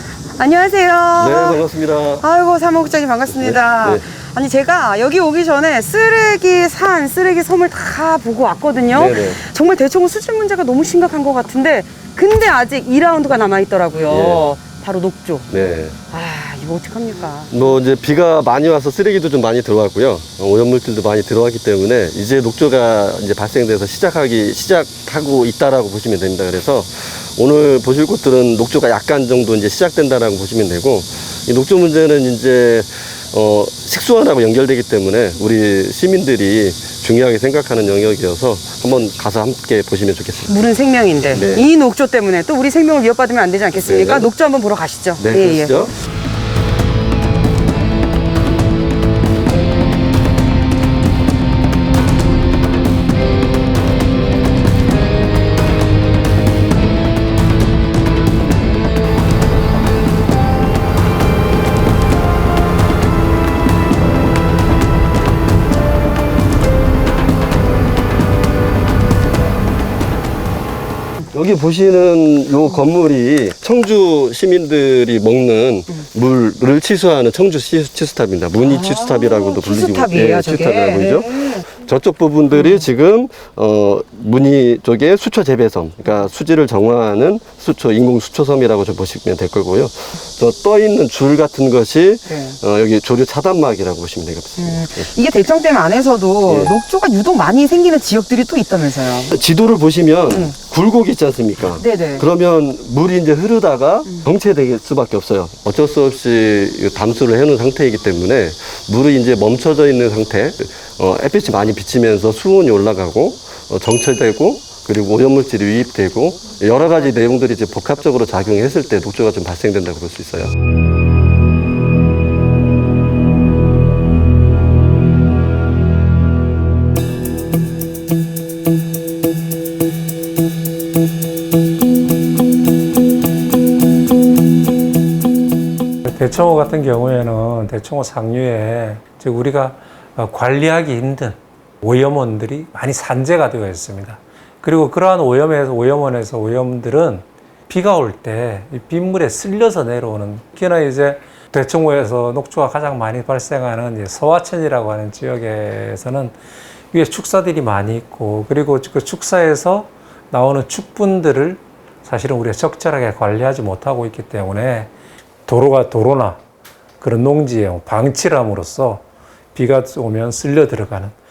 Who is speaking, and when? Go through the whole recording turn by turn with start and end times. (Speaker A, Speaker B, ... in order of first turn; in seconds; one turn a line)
Speaker A: 0.4-1.6
Speaker B: 1.2-2.2
Speaker A: 2.2-15.5
Speaker B: 3.3-4.0
Speaker B: 8.9-9.4
Speaker B: 14.1-14.5
Speaker B: 15.5-16.0
Speaker A: 16.1-17.5
Speaker B: 17.5-40.7
Speaker A: 40.5-45.7
Speaker B: 41.3-41.7
Speaker B: 43.8-44.3
Speaker B: 45.2-45.9
Speaker B: 71.3-95.1
Speaker A: 78.6-81.6
Speaker A: 82.5-82.8
Speaker A: 92.3-92.6
Speaker A: 94.6-99.3
Speaker B: 96.5-96.7
Speaker B: 99.3-120.5
Speaker A: 101.8-102.2
Speaker C: 136.0-156.4
Speaker C: 156.9-164.9
Speaker C: 165.5-166.4
Speaker C: 167.0-171.1